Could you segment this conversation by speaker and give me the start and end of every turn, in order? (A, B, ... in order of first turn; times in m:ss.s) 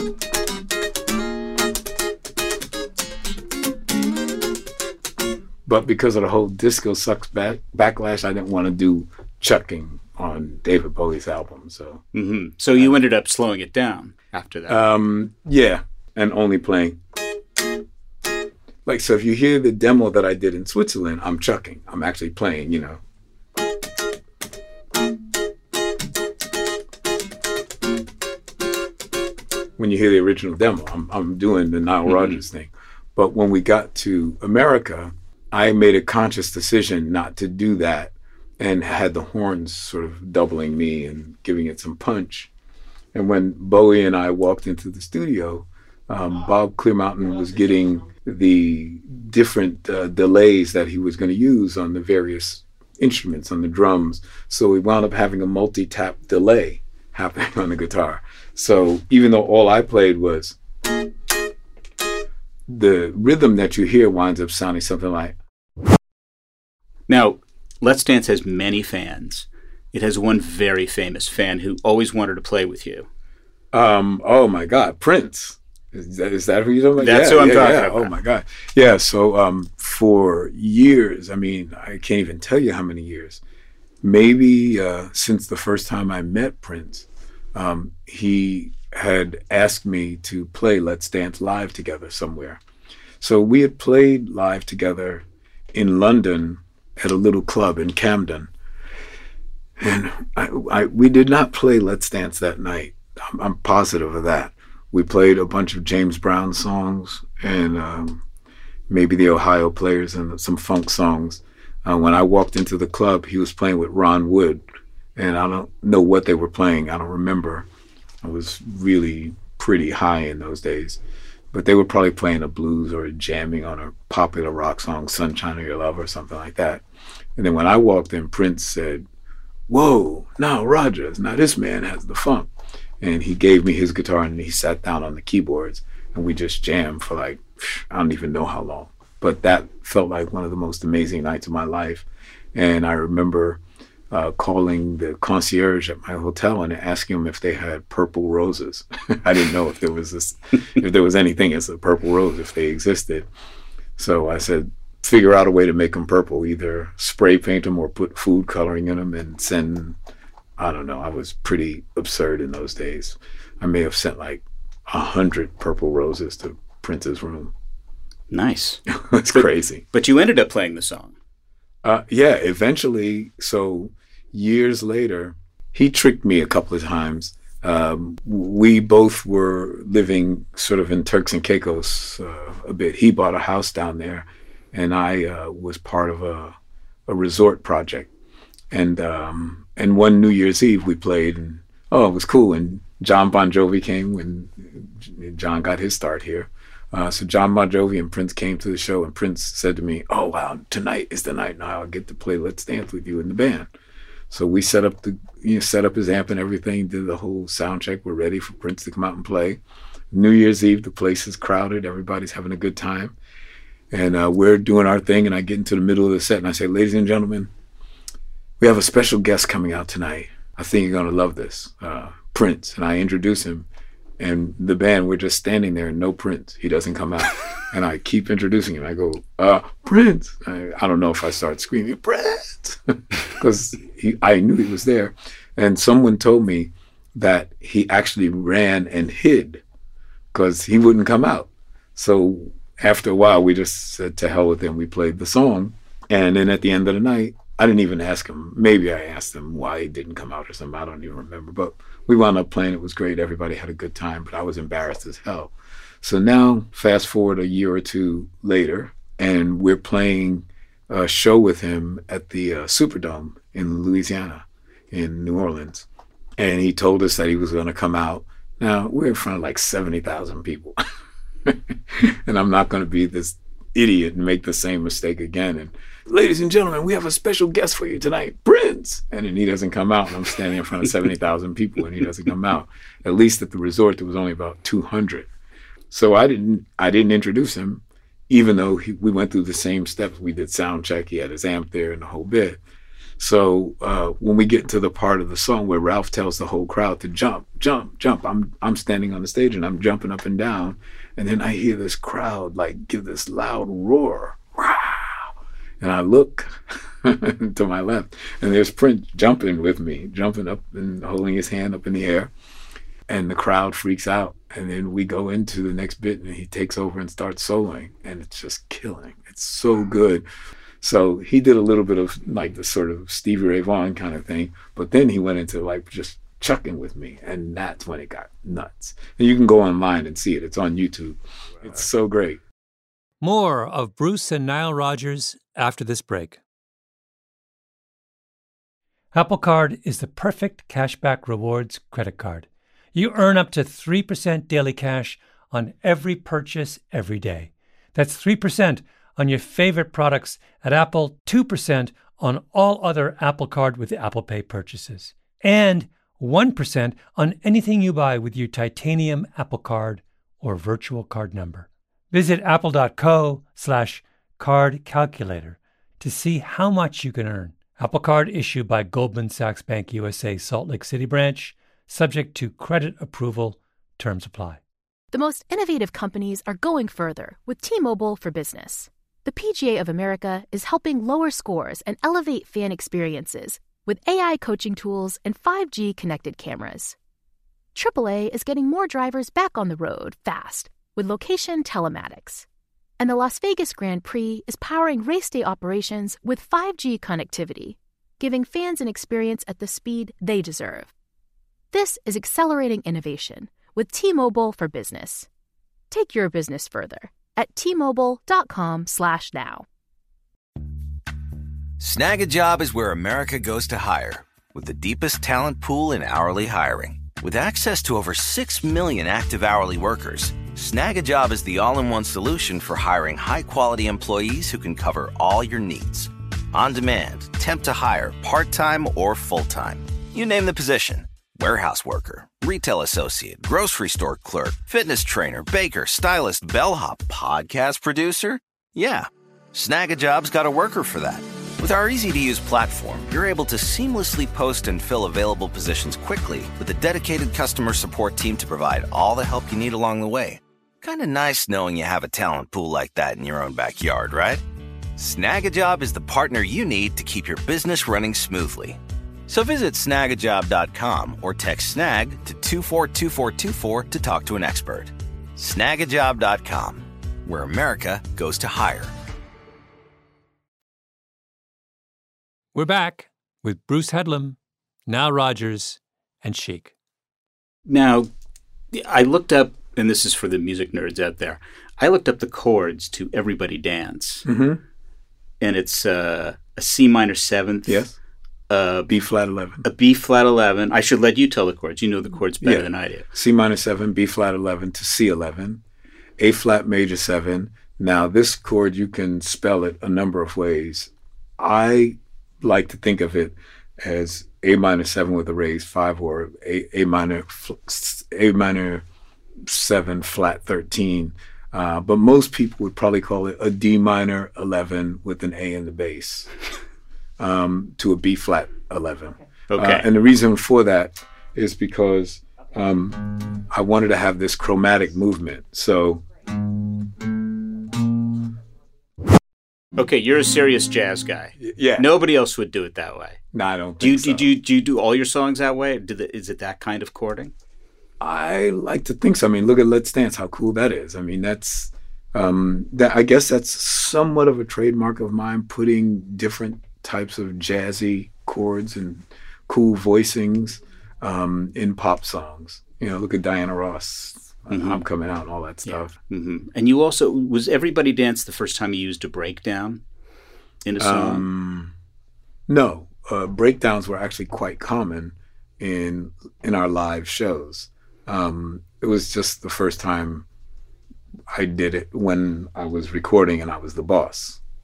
0:05.6-0:12.0 A
0:12.1-0:14.8 B
0:14.7-0:17.0 A
0:18.8-0:23.0 A
0:29.8-0:42.5 A
0:43.1-1:00.6 A
1:02.7-1:05.4 A
1:07.1-1:13.1 B
1:13.7-1:23.4 A
1:17.0-1:18.1 B
1:24.0-1:32.6 A
1:33.2-1:38.5 A
1:39.8-1:48.2 A
1:48.9-1:54.6 A
1:55.2-1:57.7 A
1:58.2-2:01.0 A
2:01.5-2:06.8 A
2:07.4-2:09.0 A
2:09.7-2:12.5 A
2:13.0-2:33.3 A
2:34.0-2:40.0 A
2:40.6-2:47.5 A
2:48.3-2:51.1 B
2:48.9-2:49.8 A
2:51.8-3:06.6 A
3:07.1-3:08.1 A
3:08.7-3:23.7 A
3:24.3-3:29.6 A
3:30.1-3:33.2 A
3:33.9-3:37.5 A
3:38.6-3:43.7 A
3:44.2-3:59.6 A
4:00.3-4:25.9 A
4:26.4-4:30.8 A
4:31.4-4:45.3 A
4:45.9-4:52.6 A
4:53.2-5:12.3 A
5:13.1-5:20.2 A
5:20.8-5:32.4 A
5:33.2-5:36.4 C
5:39.1-6:14.6 C
6:15.1-6:27.0 D
6:27.7-6:32.4 D
6:33.0-6:40.9 D
6:41.7-6:45.3 D
6:45.9-6:49.6 D
6:51.8-7:34.4 E
7:35.0-7:48.9 E
7:52.5-7:56.7 C
7:57.6-7:58.1 B
7:58.7-8:04.2 B
8:04.2-8:04.6 A
8:05.4-8:07.9 B
8:07.6-8:07.9 A
8:08.5-8:08.9 B
8:08.9-8:09.6 A
8:09.6-8:13.1 B
8:12.4-8:15.6 A
8:16.2-8:28.8 A
8:29.4-8:36.3 A
8:37.2-8:46.0 A
8:39.5-8:39.8 B
8:49.7-8:53.2 B
8:51.4-8:51.9 A
8:53.3-8:54.3 A
8:53.8-8:57.3 B
8:58.0-9:15.9 A
9:14.5-9:14.8 B
9:15.6-9:19.8 B
9:20.6-9:21.2 B
9:20.8-9:21.7 A
9:22.5-9:30.2 A
9:31.3-9:34.4 A